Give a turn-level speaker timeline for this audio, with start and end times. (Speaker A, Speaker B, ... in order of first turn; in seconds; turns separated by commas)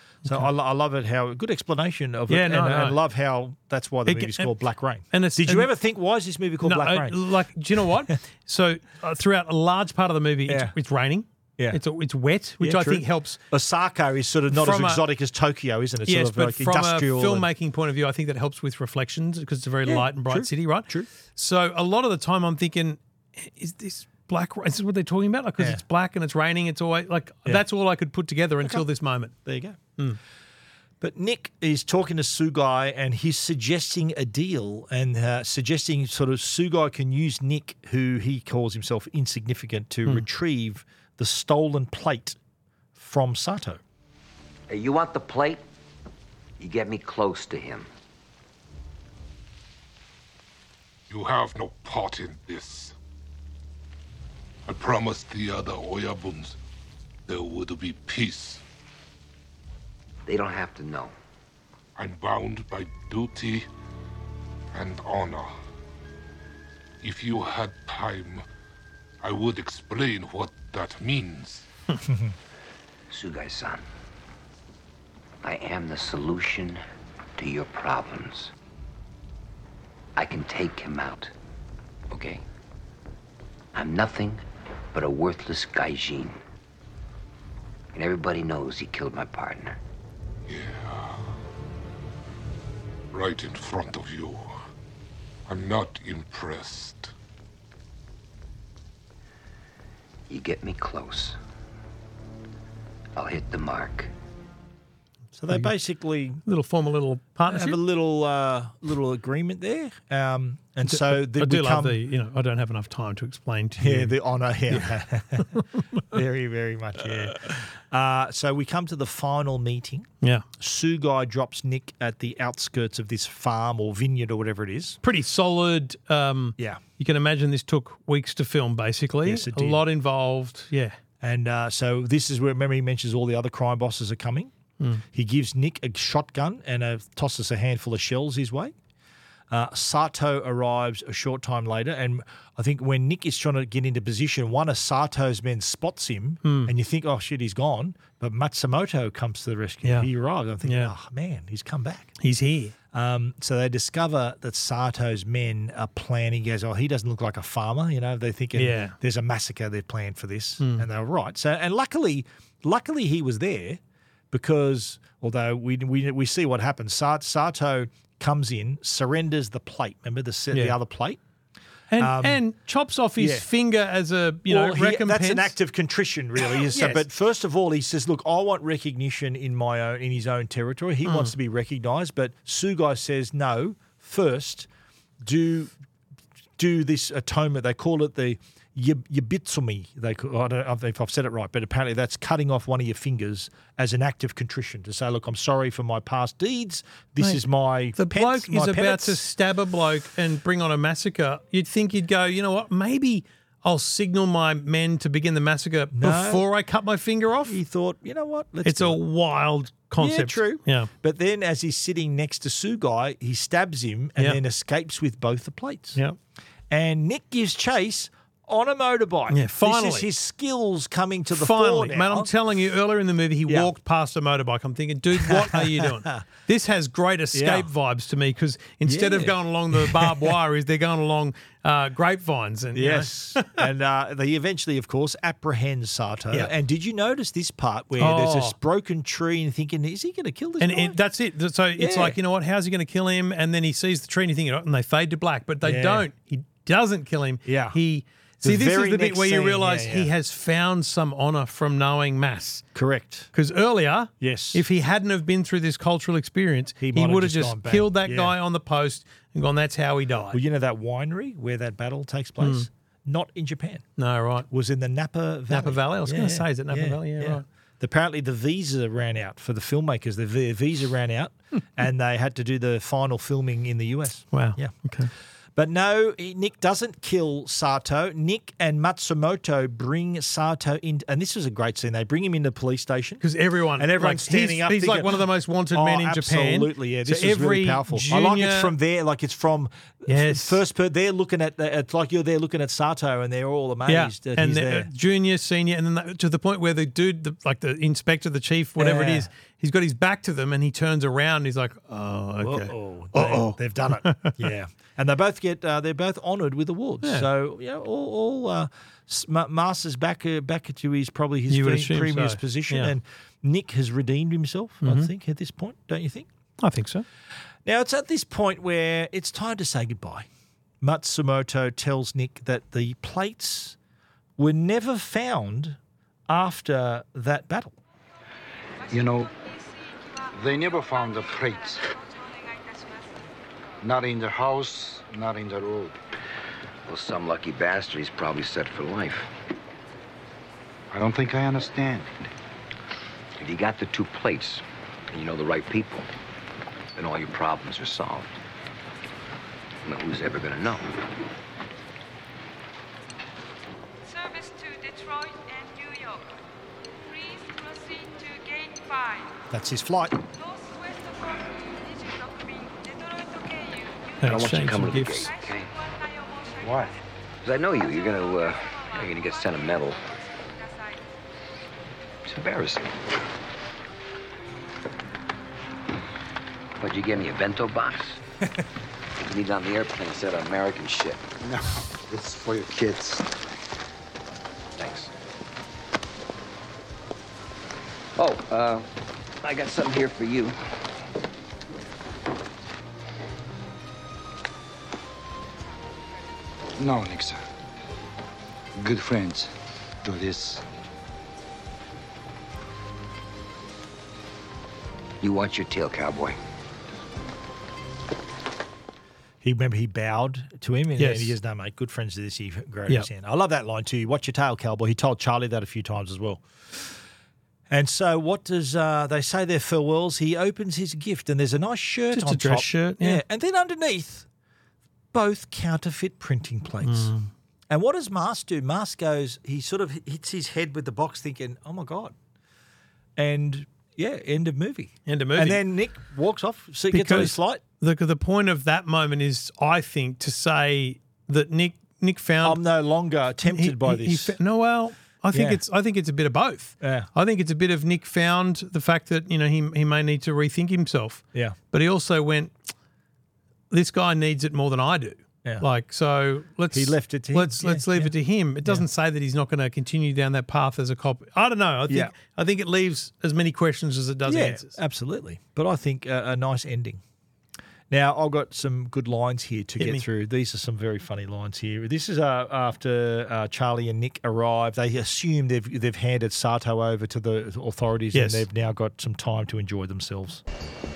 Speaker A: 0.2-7.9, Speaker B: 2.3-3.0, Speaker B: 4.1-4.5, Speaker B: 5.1-5.7, Speaker B: 6.6-13.4, Speaker A: 10.5-10.7, Speaker A: 12.6-17.5, Speaker B: 14.5-15.0, Speaker B: 16.1-29.3, Speaker A: 19.9-21.1, Speaker A: 29.4-29.8, Speaker A: 31.0-42.4, Speaker A: 43.0-43.8, Speaker C: 44.7-45.6, Speaker C: 46.6-47.9, Speaker D: 51.1-53.0, Speaker D: 54.7-56.6, Speaker D: 57.3-58.6, Speaker C: 60.3-61.1, Speaker D: 62.0-63.7, Speaker D: 64.7-65.5, Speaker D: 67.0-68.4, Speaker D: 69.2-71.7, Speaker A: 72.1-72.3, Speaker C: 73.1-73.9, Speaker C: 75.4-76.8, Speaker C: 77.4-78.5, Speaker C: 80.2-81.3, Speaker C: 82.1-82.4, Speaker C: 83.8-86.4, Speaker C: 87.9-89.8, Speaker D: 90.5-91.3, Speaker D: 93.1-94.5, Speaker D: 95.5-97.1, Speaker C: 100.3-101.4, Speaker C: 103.2-104.1, Speaker A: 105.4-106.4, Speaker B: 106.5-107.8, Speaker A: 107.5-112.0, Speaker B: 110.9-114.1, Speaker A: 113.8-125.0, Speaker B: 115.5-116.0, Speaker B: 125.0-131.0, Speaker A: 129.3-129.8, Speaker A: 131.2-134.5, Speaker A: 135.1-138.7, Speaker A: 139.5-152.1, Speaker B: 146.4-146.7, Speaker B: 149.8-150.1, Speaker B: 150.6-150.9, Speaker B: 152.2-152.7, Speaker A: 152.9-163.8, Speaker B: 158.6-159.0, Speaker B: 160.6-160.9, Speaker A: 164.3-171.2, Speaker B: 171.9-175.5, Speaker A: 172.0-172.4, Speaker A: 173.2-173.5, Speaker A: 174.5-184.7, Speaker B: 176.7-177.0, Speaker B: 181.1-181.3, Speaker A: 185.2-185.7, Speaker A: 186.6-199.2, Speaker B: 198.0-207.6, Speaker A: 205.9-206.4, Speaker A: 207.5-209.0, Speaker B: 208.7-210.9, Speaker A: 210.0-216.0, Speaker A: 216.7-222.3, Speaker B: 219.3-220.1, Speaker B: 221.3-233.6, Speaker A: 225.2-226.2, Speaker A: 227.3-227.7, Speaker A: 228.8-230.4, Speaker A: 232.8-241.0, Speaker B: 238.0-238.6, Speaker B: 240.6-252.7, Speaker A: 241.8-242.2, Speaker A: 245.6-246.1, Speaker A: 247.4-247.8, Speaker A: 248.4-250.1, Speaker A: 252.8-253.3, Speaker B: 253.3-260.4, Speaker A: 254.2-254.7, Speaker A: 256.8-258.4, Speaker A: 260.3-263.8, Speaker B: 262.4-262.7, Speaker B: 264.0-264.5, Speaker A: 264.5-274.7, Speaker B: 265.5-267.4, Speaker B: 274.3-275.1, Speaker A: 275.6-283.2, Speaker B: 283.2-288.7, Speaker A: 283.8-294.9, Speaker B: 290.1-290.6, Speaker B: 293.9-304.5, Speaker A: 298.8-299.3, Speaker A: 302.4-316.3, Speaker B: 311.5-312.9, Speaker B: 314.8-315.1, Speaker B: 316.6-317.1, Speaker A: 317.7-320.3, Speaker A: 320.8-323.8, Speaker A: 324.4-325.8, Speaker A: 326.3-327.7, Speaker E: 328.9-333.3, Speaker F: 328.9-329.3, Speaker F: 330.3-331.8, Speaker F: 333.8-336.0, Speaker C: 336.9-339.3, Speaker F: 340.9-342.3, Speaker C: 343.4-346.1, Speaker C: 347.0-348.4, Speaker C: 349.8-351.0, Speaker E: 354.1-356.4, Speaker E: 357.0-359.4, Speaker A: 359.5-360.2, Speaker E: 360.4-364.5, Speaker B: 364.2-365.3, Speaker C: 364.3-365.7, Speaker E: 365.1-366.9, Speaker F: 366.6-367.0, Speaker C: 367.4-370.0, Speaker E: 368.4-371.2, Speaker F: 372.3-372.9, Speaker C: 376.8-378.2, Speaker C: 379.2-381.2, Speaker F: 381.4-383.3, Speaker C: 384.8-385.1, Speaker C: 388.2-388.9, Speaker C: 389.4-390.6, Speaker F: 396.8-397.4, Speaker F: 398.8-399.5, Speaker F: 400.0-400.6, Speaker C: 405.2-406.4, Speaker A: 409.4-417.0, Speaker B: 411.0-411.4, Speaker A: 417.7-424.3, Speaker B: 422.1-423.2, Speaker A: 425.1-427.1, Speaker B: 426.8-427.3, Speaker A: 427.7-432.1, Speaker A: 433.2-437.6, Speaker B: 435.1-435.6, Speaker B: 436.9-442.6, Speaker A: 442.4-444.4, Speaker B: 443.5-452.5, Speaker A: 445.3-445.6, Speaker A: 446.8-447.1, Speaker B: 453.7-464.8, Speaker A: 456.7-458.1, Speaker A: 464.3-467.0, Speaker A: 467.9-480.4, Speaker B: 478.1-478.4